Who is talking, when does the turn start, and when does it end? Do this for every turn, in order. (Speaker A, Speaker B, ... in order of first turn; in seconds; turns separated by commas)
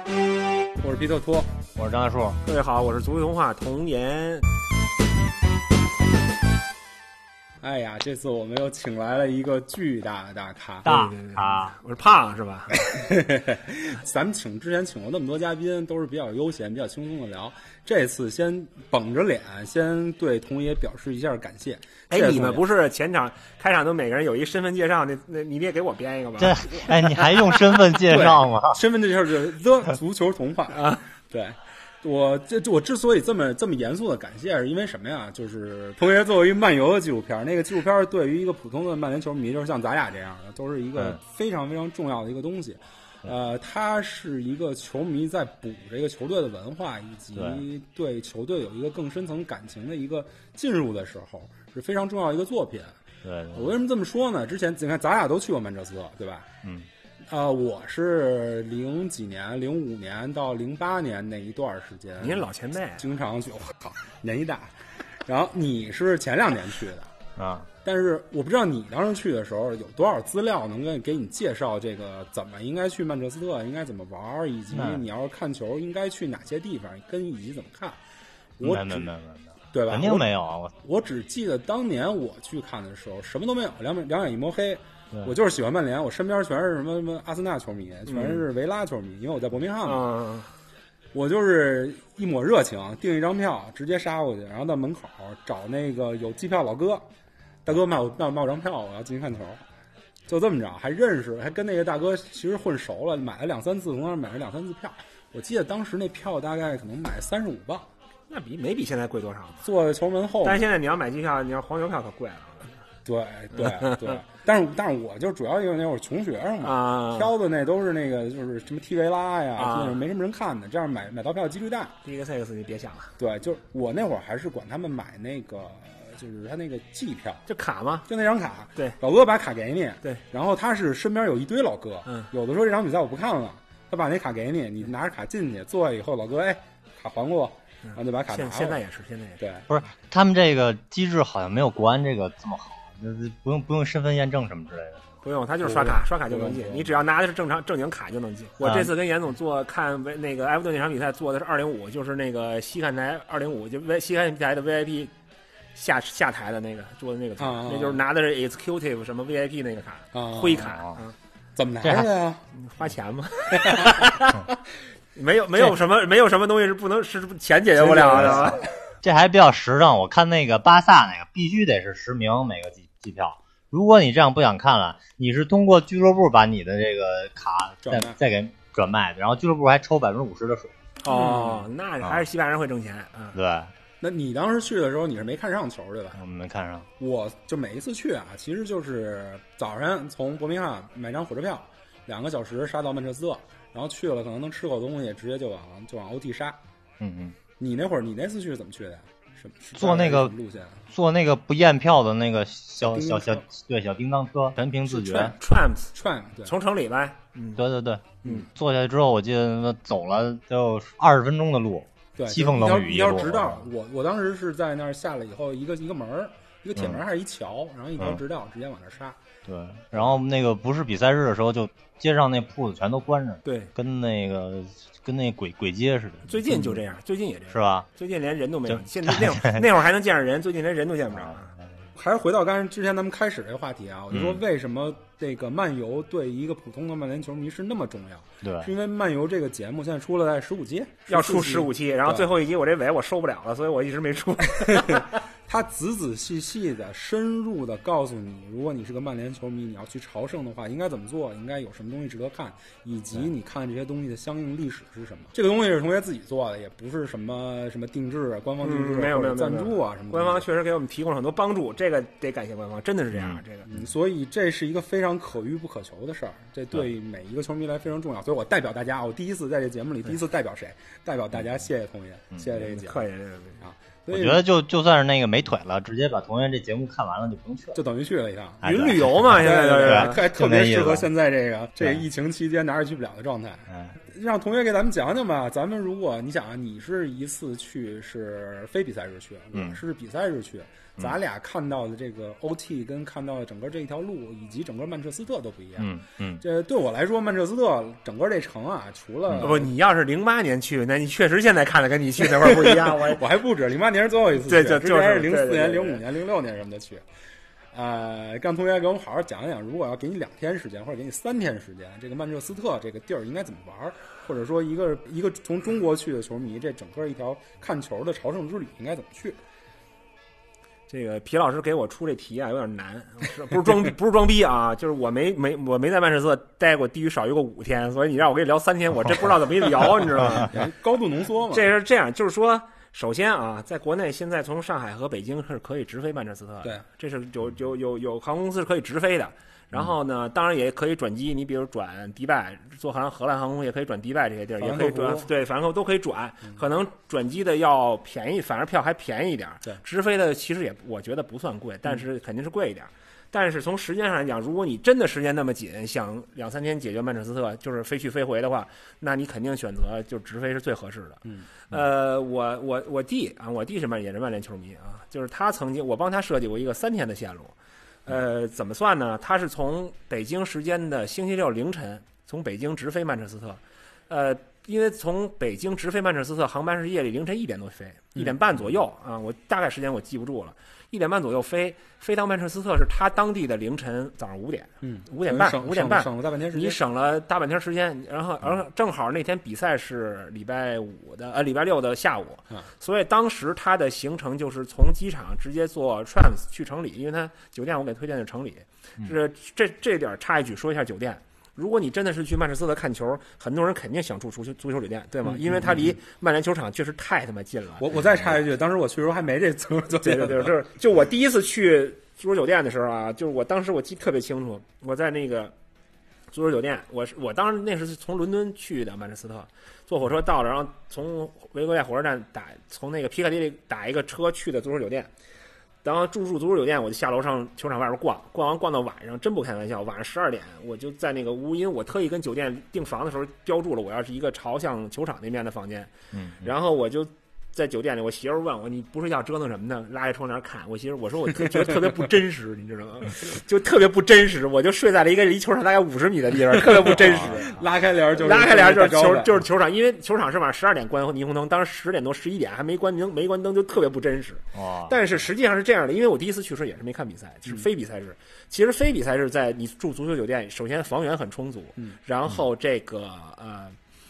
Speaker A: 0.8-1.5, Speaker B: 1.7-2.4, Speaker C: 2.4-4.5, Speaker A: 7.6-10.9, Speaker B: 10.8-11.7, Speaker C: 10.8-12.8, Speaker A: 12.7-22.6, Speaker C: 22.1-27.7, Speaker B: 26.4-28.8, Speaker A: 28.0-53.0, Speaker C: 30.7-31.0, Speaker B: 47.3-47.6, Speaker B: 53.2-53.7, Speaker A: 53.5-56.5, Speaker A: 57.3-62.5, Speaker C: 62.2-63.1, Speaker A: 63.0-64.7, Speaker A: 65.2-67.1, Speaker B: 67.4-67.7, Speaker A: 67.8-78.0, Speaker B: 74.7-75.0, Speaker A: 78.6-79.1, Speaker B: 78.6-80.7, Speaker A: 79.7-80.3, Speaker A: 80.8-90.0, Speaker C: 88.1-88.4, Speaker C: 89.8-90.5, Speaker A: 91.1-97.0, Speaker A: 97.6-99.6, Speaker A: 100.3-107.9, Speaker C: 108.3-109.6, Speaker A: 109.6-110.6, Speaker C: 110.4-112.7, Speaker A: 113.0-121.9, Speaker C: 113.5-114.1, Speaker C: 116.6-117.3, Speaker C: 119.5-120.0, Speaker C: 122.0-123.1, Speaker A: 123.2-127.4, Speaker C: 127.5-128.1, Speaker A: 128.1-138.8, Speaker C: 137.9-139.4, Speaker A: 139.4-139.7, Speaker B: 139.7-145.2, Speaker C: 145.2-155.1, Speaker A: 145.6-146.9, Speaker B: 148.6-148.9, Speaker C: 155.7-161.1, Speaker A: 157.4-158.0, Speaker A: 160.1-160.7, Speaker B: 160.7-161.0, Speaker A: 161.6-162.4, Speaker B: 161.8-162.1, Speaker C: 162.5-164.5, Speaker A: 163.6-164.0, Speaker C: 165.1-168.6, Speaker A: 167.8-168.6, Speaker B: 168.1-180.8, Speaker A: 177.8-178.2, Speaker C: 181.0-183.4, Speaker A: 181.1-181.7, Speaker B: 183.3-183.7, Speaker A: 184.0-186.2, Speaker B: 186.2-186.9, Speaker A: 187.0-196.6, Speaker B: 197.0-197.3, Speaker A: 197.6-200.8, Speaker B: 199.7-200.3, Speaker B: 200.9-205.3, Speaker A: 202.8-203.4, Speaker A: 204.8-205.4, Speaker C: 205.4-205.9, Speaker A: 205.9-206.5, Speaker C: 206.4-207.6, Speaker B: 207.6-213.7, Speaker A: 212.2-219.2, Speaker B: 216.8-217.0, Speaker B: 219.4-226.8, Speaker C: 223.4-223.7, Speaker C: 226.2-231.5, Speaker B: 227.5-227.9, Speaker B: 228.7-229.6, Speaker A: 232.0-242.3, Speaker B: 234.1-234.4, Speaker B: 238.4-238.7, Speaker C: 241.1-245.1, Speaker A: 244.7-260.4, Speaker C: 258.6-263.7, Speaker A: 263.7-273.1, Speaker C: 272.6-273.6, Speaker A: 273.6-274.4, Speaker B: 274.1-277.8, Speaker A: 277.7-299.7, Speaker B: 278.6-281.1, Speaker C: 278.6-280.2, Speaker B: 289.5-289.8, Speaker B: 295.8-296.4, Speaker C: 299.4-303.2, Speaker A: 302.3-307.0, Speaker C: 304.4-306.0, Speaker A: 307.7-319.4, Speaker C: 320.9-330.6, Speaker A: 330.3-331.7, Speaker C: 331.5-367.5, Speaker A: 344.6-345.3, Speaker C: 368.0-407.8, Speaker A: 384.8-386.8, Speaker A: 405.2-405.9, Speaker A: 407.8-410.5, Speaker C: 410.0-415.5, Speaker C: 416.3-425.1, Speaker C: 425.8-463.8, Speaker B: 436.1-436.4, Speaker A: 446.7-449.3, Speaker B: 454.5-454.9